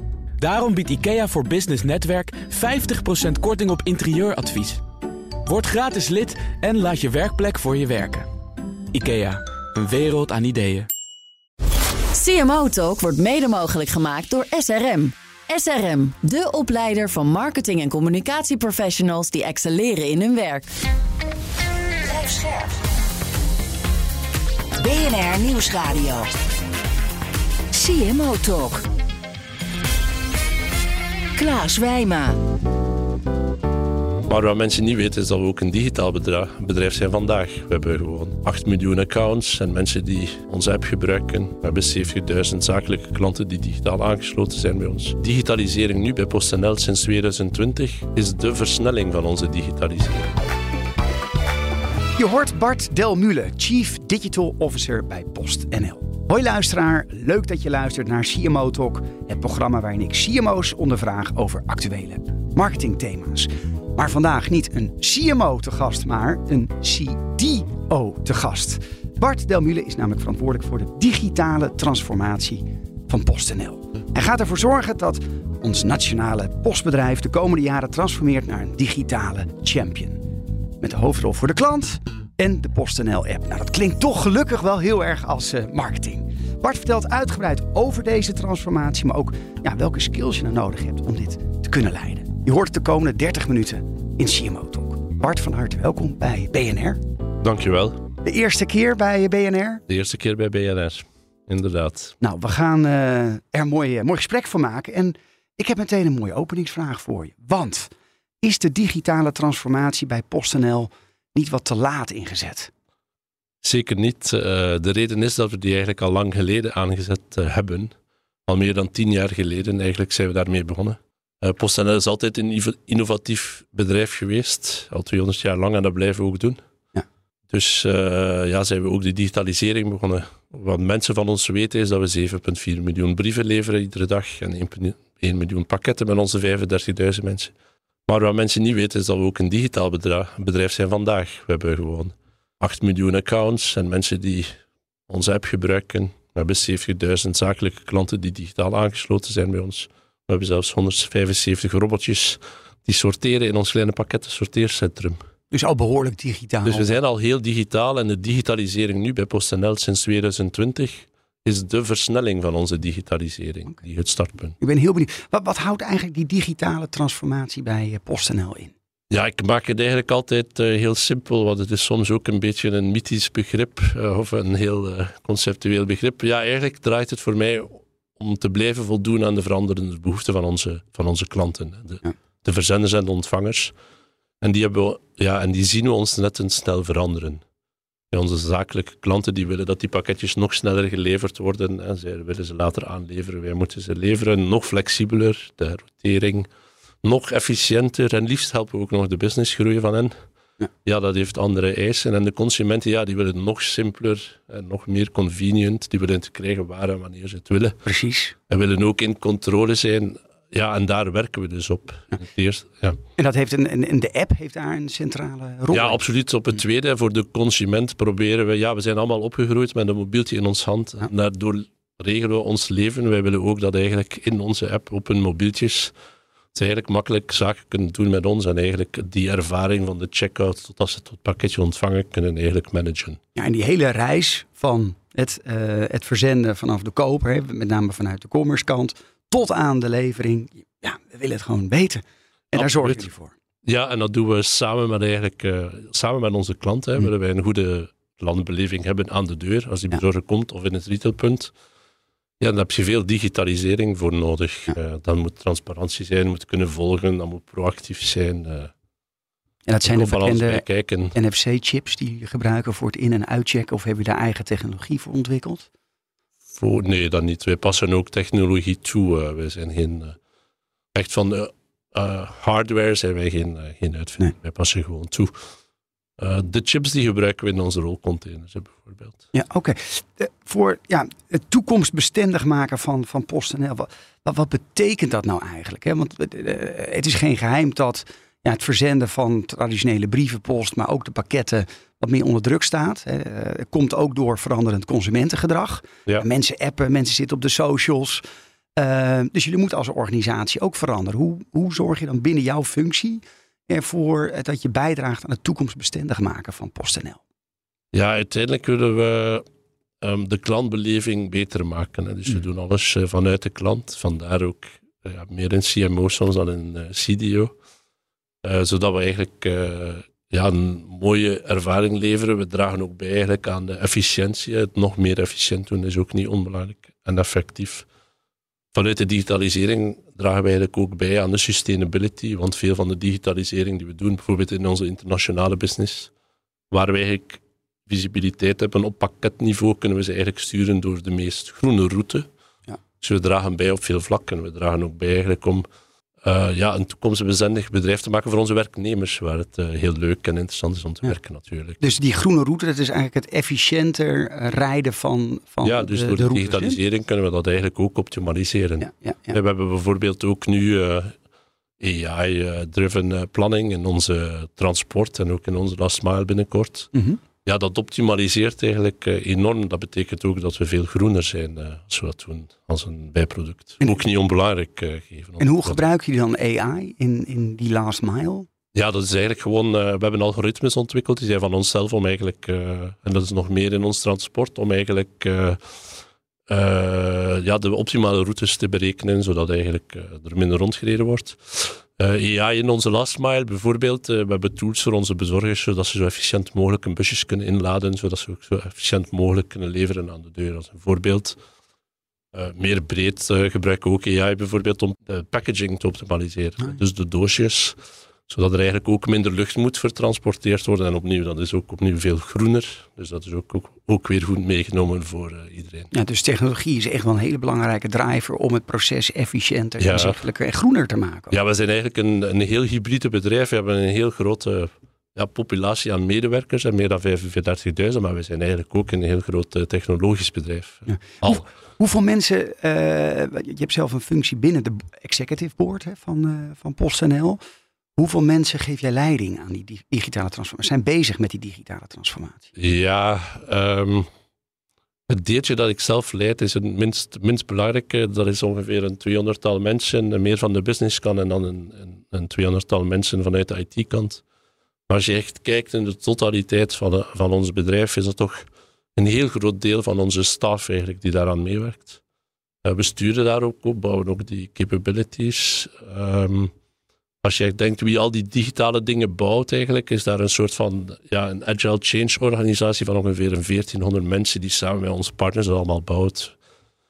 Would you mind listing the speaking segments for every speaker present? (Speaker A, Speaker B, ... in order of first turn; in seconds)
Speaker A: 0.4-4.8, 5.5-8.3, 8.9-10.9
Speaker B: 12.2-20.7
Speaker C: 22.1-22.8, 24.8-26.3, 27.7-28.8, 31.4-32.4
Speaker D: 34.3-50.4, 97.4-98.0, 99.9-102.2, 113.6-117.9, 118.5-126.6, 127.5-137.5, 138.1-144.6, 145.1-155.2, 156.7-164.6, 169.1-183.8, 184.4-187.4, 188.1-196.5, 197.0-200.2, 200.8-207.8, 208.5-213.0, 215.7-225.9, 226.5-233.2, 242.5-243.1, 243.7-251.5, 252.4-258.7, 259.9-261.2, 266.5-270.2, 270.9-275.4, 276.2-279.2, 307.9-309.4, 310.0-317.6, 318.4-327.9, 328.7-336.1, 336.7-342.3, 343.0-345.6, 346.2-351.8, 355.6-361.2, 361.8-366.9, 367.4-375.8, 378.7-385.8, 386.5-401.4, 402.3-407.8, 408.3-415.9, 419.8-420.2, 421.3-431.4, 442.6-444.1, 445.1-454.2, 454.9-458.4, 459.0-462.0, 462.6-466.5, 467.2-476.4
Speaker E: 52.2-80.2, 80.8-97.0, 98.2-99.8, 102.2-112.7, 155.5-156.9, 164.6-168.7, 207.8-208.4, 213.2-216.0, 233.3-243.3, 259.7-265.7, 279.3-298.2, 298.8-307.2, 351.8-356.8, 358.8-359.4, 366.9-367.2, 375.4-378.5, 415.9-421.4, 430.9-437.4, 438.0-442.5